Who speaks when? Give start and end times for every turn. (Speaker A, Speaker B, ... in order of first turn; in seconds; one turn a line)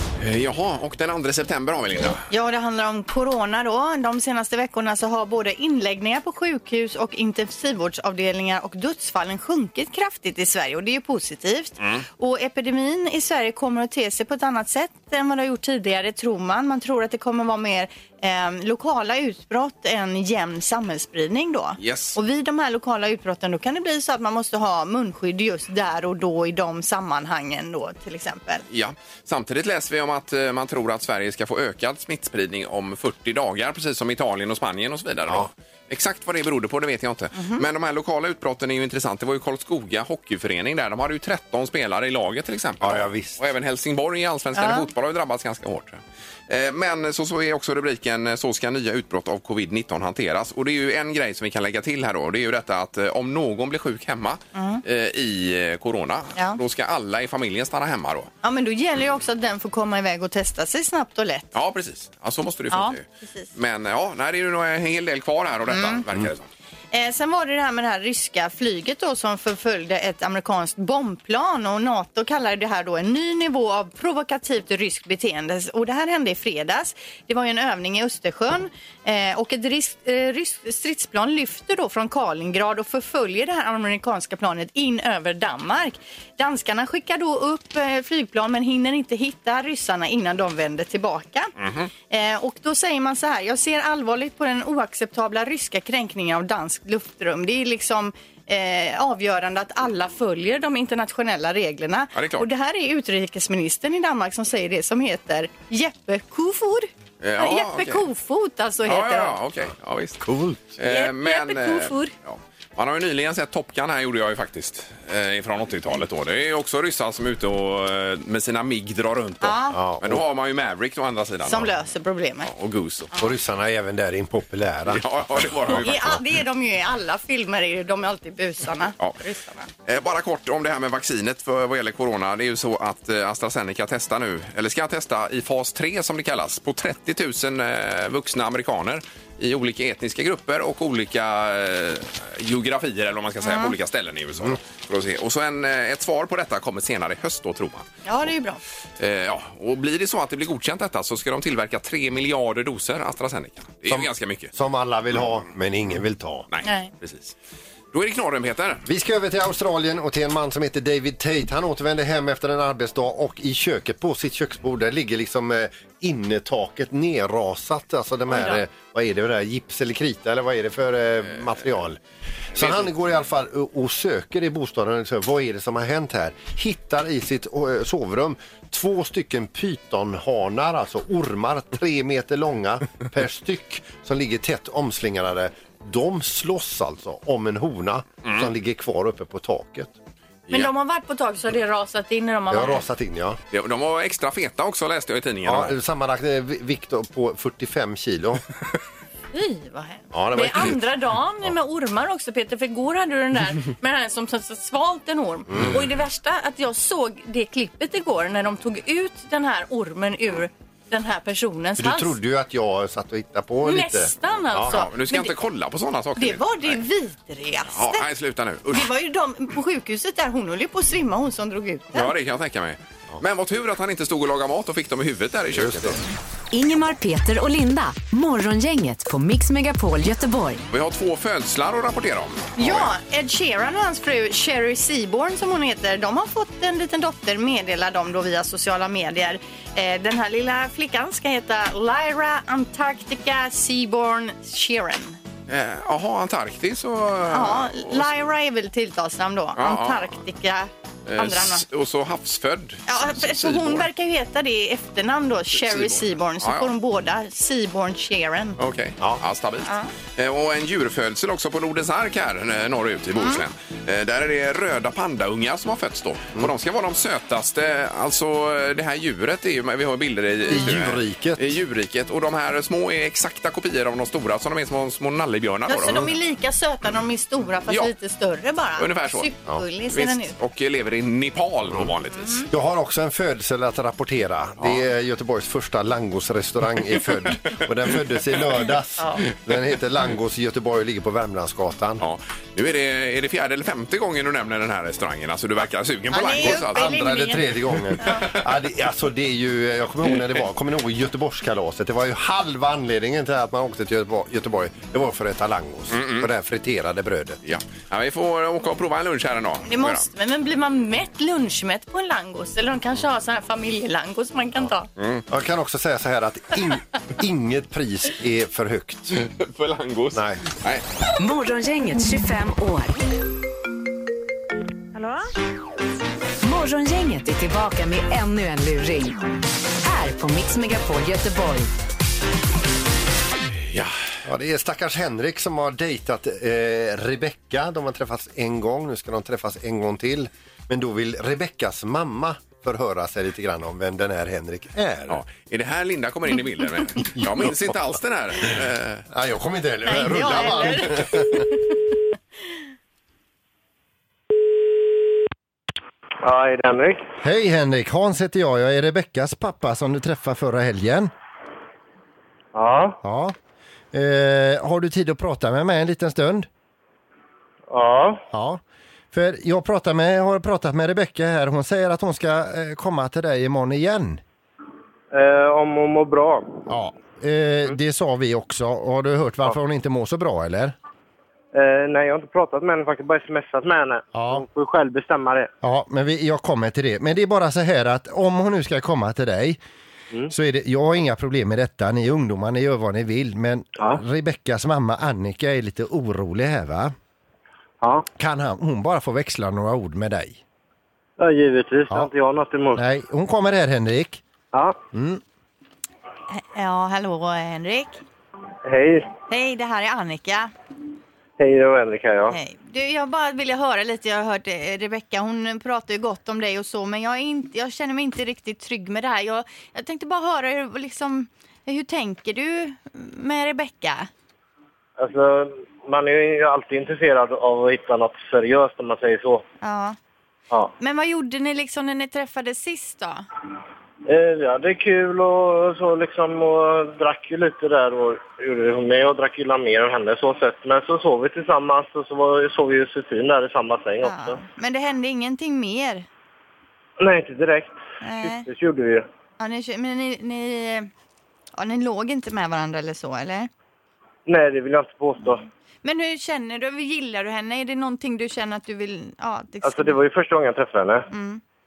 Speaker A: 0.2-2.3
Speaker B: 2.3-28.6
Speaker A: 21.8-22.2
Speaker A: 28.7-58.3
Speaker B: 37.3-37.6
Speaker C: 42.8-43.4
Speaker B: 44.5-44.9
Speaker B: 54.5-54.8
Speaker B: 58.4-61.5
Speaker A: 61.5-66.5
Speaker B: 62.7-63.5
Speaker B: 65.7-66.0
Speaker B: 66.9-91.5
Speaker A: 91.6-91.9
Speaker B: 92.1-109.4
Speaker A: 102.1-102.5
Speaker A: 107.2-108.0
Speaker A: 108.8-110.2
Speaker C: 110.2-110.7
Speaker A: 110.8-121.7
Speaker B: 110.8-112.1
Speaker B: 119.4-119.8
Speaker C: 119.7-120.2
Speaker B: 121.5-122.5
Speaker A: 122.4-123.1
Speaker C: 123.2-126.2
Speaker A: 124.9-126.1
Speaker B: 125.8-129.7
Speaker A: 129.8-147.9
Speaker B: 143.4-143.7
Speaker B: 148.0-148.6
Speaker A: 149.0-154.5
Speaker C: 153.9-156.4
Speaker A: 156.5-157.3
Speaker B: 156.6-156.9
Speaker A: 157.9-158.8
Speaker C: 158.8-172.0
Speaker B: 168.3-168.6
Speaker C: 172.5-189.9
Speaker A: 172.6-172.8
Speaker B: 190.5-192.8
Speaker C: 192.5-193.4
Speaker A: 193.5-195.8
Speaker C: 195.4-198.4
Speaker B: 199.3-212.2
Speaker C: 200.1-200.8
Speaker C: 205.5-205.8
Speaker C: 211.8-214.8
Speaker B: 213.6-215.3
Speaker A: 214.7-216.8
Speaker B: 216.2-218.1
Speaker A: 217.7-218.9
Speaker B: 218.7-222.1
Speaker A: 221.9-226.0
Speaker C: 225.5-226.0
Speaker D: 226.5-230.6
Speaker A: 230.7-232.9
Speaker B: 232.6-245.2
Speaker A: 245.5-248.1
Speaker B: 247.3-251.6
Speaker A: 249.6-250.1
Speaker A: 251.1-253.9
Speaker B: 252.9-258.6
Speaker A: 255.6-256.7
Speaker A: 258.6-276.1
Speaker B: 259.6-259.9
Speaker C: 270.5-271.4
Speaker B: 275.6-280.3
Speaker A: 278.8-279.3
Speaker A: 279.9-282.5
Speaker B: 282.2-282.4
Speaker C: 282.5-292.0
Speaker A: 292.0-296.9
Speaker B: 296.1-297.4
Speaker C: 296.3-307.4
Speaker B: 298.0-298.2
Speaker A: 305.9-306.3
Speaker A: 307.4-310.1
Speaker B: 309.6-314.9
Speaker A: 315.0-315.2
Speaker C: 315.3-319.2
Speaker A: 319.1-320.8
Speaker C: 320.1-320.4
Speaker D: 321.2-322.9
Speaker D: 326.4-329.2
Speaker D: 329.8-331.7
Speaker A: 333.6-333.9
Speaker C: 334.2-345.2
Speaker A: 345.1-349.1
Speaker C: 347.2-347.5
Speaker C: 349.1-351.4
Speaker B: 349.9-351.4
Speaker E: 356.2-357.0
Speaker C: 357.2-361.1
Speaker E: 362.5-363.0
Speaker C: 363.0-363.4
Speaker C: 363.9-366.5
Speaker E: 367.7-368.2
Speaker C: 368.3-374.2
Speaker E: 375.1-376.6
Speaker C: 376.7-380.8
Speaker E: 381.5-385.5
Speaker C: 384.1-384.4
Speaker C: 385.6-389.6
Speaker C: 390.3-396.9
Speaker E: 397.8-398.1
Speaker C: 398.2-400.4
Speaker E: 401.2-402.8
Speaker C: 402.7-404.2
Speaker C: 404.9-405.2
Speaker B: 406.3-408.0
Speaker E: 408.6-409.1
Speaker B: 409.3-410.5
Speaker E: 411.4-412.4
Speaker B: 412.3-424.1
Speaker E: 425.0-429.4
Speaker B: 429.6-430.0
Speaker B: 430.8-433.2
Speaker E: 434.1-444.4
Speaker B: 444.0-446.1
Speaker E: 447.0-449.0
Speaker B: 448.0-448.5
Speaker B: 449.4-450.9
Speaker B: 451.6-453.5
Speaker E: 454.3-455.4
Speaker B: 455.4-460.0
Speaker E: 459.6-461.1
Speaker B: 461.1-461.4